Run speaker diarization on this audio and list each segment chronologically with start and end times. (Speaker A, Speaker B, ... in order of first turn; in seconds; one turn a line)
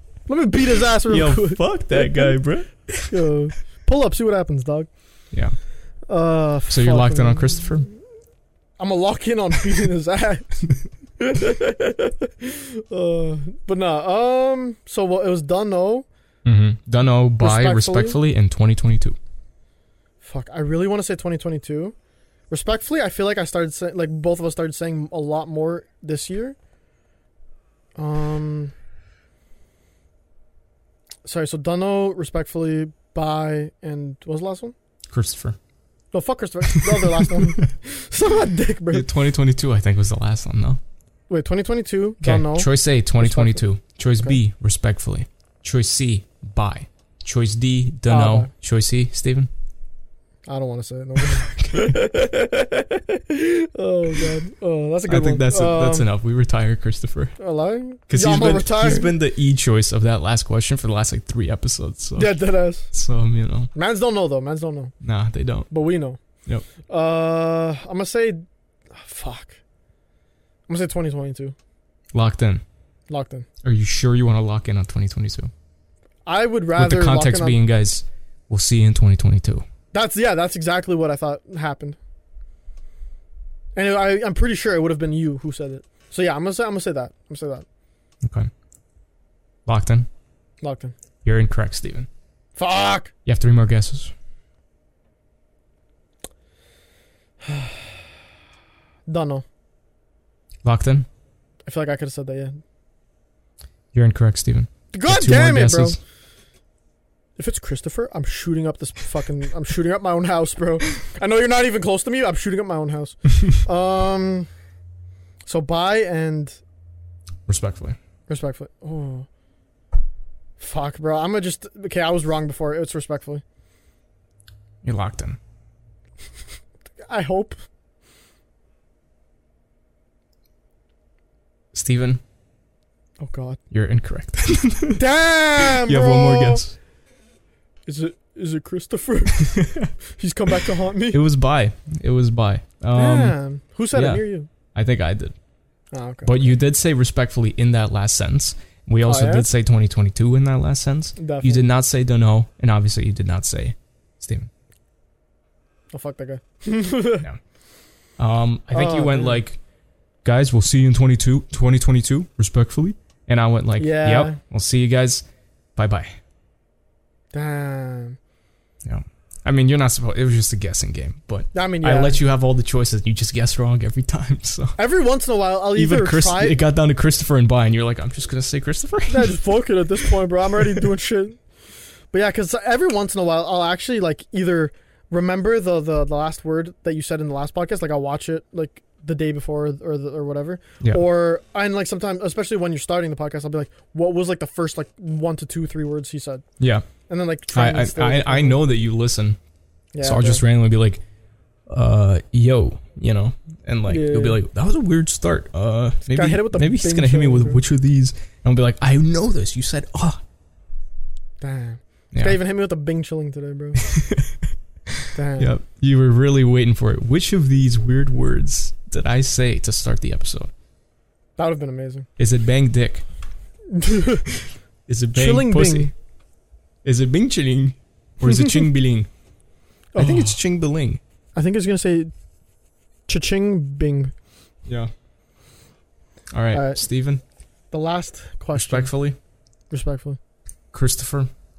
Speaker A: 0.3-2.3
Speaker B: 1.1-3.1
Speaker A: 3.1-4.9
Speaker A: 6.1-7.7
Speaker B: 6.7-7.9
Speaker A: 8.8-10.6
Speaker A: 11.2-16.1
Speaker B: 16.4-19.2
Speaker A: 17.4-18.2
Speaker A: 20.2-21.9
Speaker A: 22.5-26.6
Speaker A: 28.0-28.7
Speaker A: 31.2-34.8
Speaker B: 35.1-35.6
Speaker A: 36.1-39.1
Speaker B: 36.8-37.5
Speaker B: 38.9-40.8
Speaker A: 41.3-43.6
Speaker B: 42.2-49.5
Speaker A: 48.1-48.5
Speaker A: 50.5-56.1
Speaker B: 51.2-52.2
Speaker B: 55.1-57.4
Speaker A: 57.4-59.1
Speaker B: 58.1-62.4
Speaker A: 62.2-62.9
Speaker B: 62.9-63.7
Speaker A: 63.8-64.9
Speaker B: 65.0-65.7
Speaker A: 65.7-66.2
Speaker A: 66.9-69.6
Speaker A: 70.7-71.5
Speaker B: 72.1-72.6
Speaker A: 73.1-73.5
Speaker B: 73.6-75.5
Speaker A: 76.3-77.6
Speaker B: 76.7-79.7
Speaker A: 79.9-82.0
Speaker A: 83.8-87.7
Speaker B: 88.2-88.5
Speaker B: 89.7-90.1
Speaker A: 90.6-90.9
Speaker B: 91.2-92.1
Speaker A: 92.6-93.1
Speaker B: 93.3-94.1
Speaker A: 97.5-97.8
Speaker A: 99.1-99.5
Speaker B: 100.6-101.1
Speaker A: 101.7-102.6
Speaker B: 103.9-106.0
Speaker A: 104.9-106.0
Speaker A: 107.4-114.5
Speaker A: 115.5-116.6
Speaker B: 117.5-118.0
Speaker A: 118.3-119.3
Speaker A: 120.6-123.4
Speaker B: 124.8-125.4
Speaker A: 127.1-127.6
Speaker B: 131.7-132.2
Speaker A: 133.2-133.6
Speaker B: 133.7-135.0
Speaker A: 134.9-136.6
Speaker B: 135.6-136.7
Speaker A: 137.9-141.2
Speaker B: 139.4-139.9
Speaker B: 141.1-143.4
Speaker A: 142.9-144.5
Speaker B: 143.9-145.4
Speaker A: 145.9-146.5
Speaker B: 146.2-154.5
Speaker A: 149.1-149.5
Speaker A: 151.2-151.7
Speaker A: 155.9-157.3
Speaker B: 158.2-159.6
Speaker A: 158.7-159.4
Speaker B: 160.2-165.2
Speaker A: 163.8-164.4
Speaker B: 165.8-166.1
Speaker A: 167.3-168.2
Speaker B: 168.8-174.8
Speaker A: 171.5-172.2
Speaker A: 174.8-176.6
Speaker B: 175.7-179.4
Speaker A: 179.1-181.4
Speaker A: 182.1-196.4
Speaker B: 196.6-196.9
Speaker A: 197.1-198.6
Speaker B: 197.5-199.4
Speaker A: 199.9-200.4
Speaker B: 200.0-201.0
Speaker B: 201.7-210.2
Speaker A: 203.9-204.4
Speaker A: 206.1-207.6
Speaker A: 211.4-213.9
Speaker B: 213.8-220.5
Speaker A: 215.1-215.5
Speaker A: 221.4-222.1
Speaker B: 222.2-223.1
Speaker A: 223.7-224.3
Speaker B: 224.9-225.9
Speaker A: 225.1-225.9
Speaker B: 226.8-229.1
Speaker A: 229.9-230.4
Speaker B: 230.0-231.0
Speaker A: 231.3-232.1
Speaker A: 233.1-234.1
Speaker B: 234.7-234.9
Speaker B: 236.3-237.2
Speaker A: 236.5-236.8
Speaker A: 237.7-238.9
Speaker B: 238.5-239.2
Speaker A: 239.7-240.2
Speaker B: 240.7-241.3